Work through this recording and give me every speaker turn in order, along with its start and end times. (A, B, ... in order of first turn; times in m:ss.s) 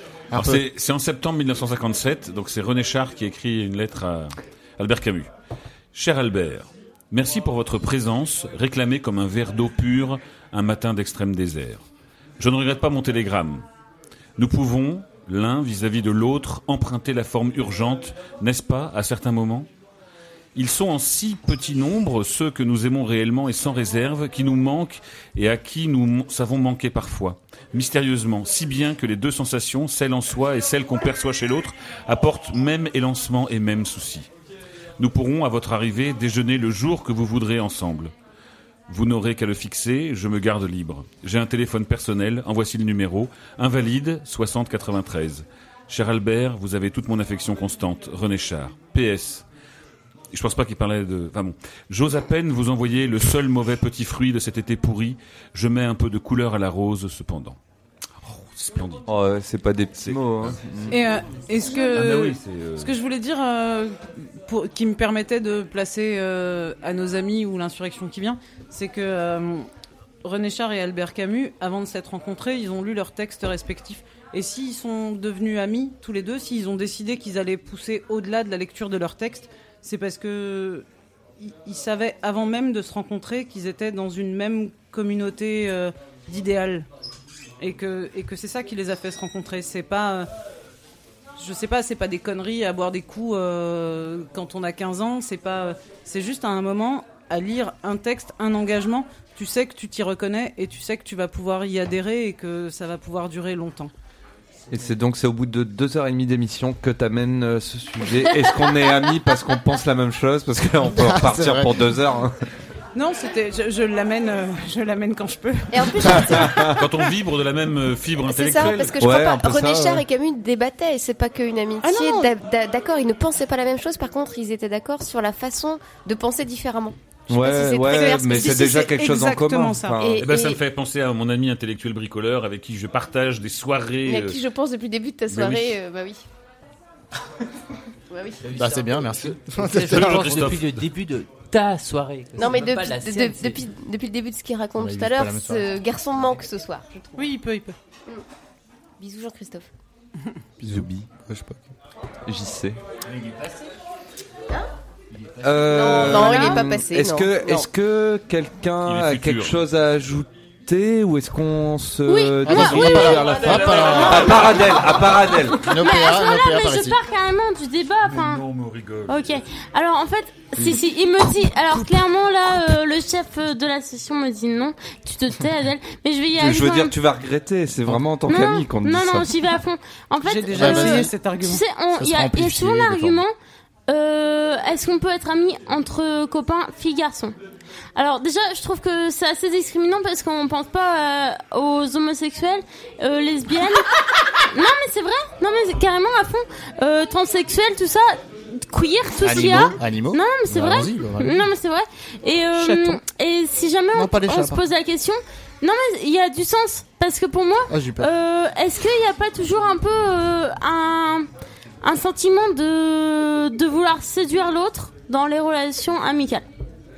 0:00.3-0:00.6 A
0:00.3-0:05.3 B
0:05.9-0:11.8 B
0:12.4-0:13.6 B
0:14.4-0:19.7 B
0:20.5-0:34.3 B
0:35.0-0:38.1 B
0:38.9-0:49.4 B
0:50.3-0:57.6 B
0:58.2-0:59.0 B
0:59.1-1:01.0 C
1:00.0-1:00.6 B
1:00.9-1:09.7 D
1:01.7-1:02.9 B
1:10.2-1:20.8 D
1:21.4-1:26.9 D
1:27.6-1:30.3 D
1:31.4-1:43.9 D
1:44.7-1:52.4 C
1:50.9-1:51.9 A
1:52.9-1:56.6 D
1:55.7-1:56.8 E
1:56.2-1:56.8 C
1:56.8-1:59.0 B
1:58.2-2:09.0 E
1:59.0-2:00.0 C
2:01.8-2:02.3 D
2:07.3-2:10.3 C
2:08.0-2:10.0 D
2:10.0-2:10.6 E
2:10.2-2:14.4 B
2:14.0-2:16.2 E
2:15.3-2:15.8 B
2:18.1-2:18.4 E
2:18.4-2:23.6 F
2:18.5-2:20.6 A
2:19.9-2:20.8 B
2:22.4-2:27.3 E
2:24.8-2:25.7 A
2:27.2-2:27.8 D
2:29.0-2:29.7 E
2:30.6-2:31.7 A
2:30.6-2:31.0 C
2:32.2-2:32.8 C
2:33.1-2:33.7 F
2:35.1-2:36.2 F
2:35.4-2:45.7 C
2:35.6-2:37.7 E
2:36.2-2:36.6 D
2:38.8-2:39.6 B
2:42.0-2:43.4 G
2:42.4-2:44.6 A
2:43.1-2:44.9 B
2:45.6-2:47.0 A
2:45.7-2:48.4 G
2:48.0-2:49.4 B
2:49.1-2:56.9 G
2:56.4-2:59.3 C
2:58.2-3:03.3 G
3:00.2-3:01.6 D
3:00.5-3:01.1 A
3:01.9-3:03.2 A
3:03.9-3:07.4 G
3:08.0-3:13.9 G
3:14.5-3:31.3 G
3:19.2-3:21.5 A
3:23.9-3:24.6 A
3:27.7-3:28.1 A
3:31.8-3:36.4 G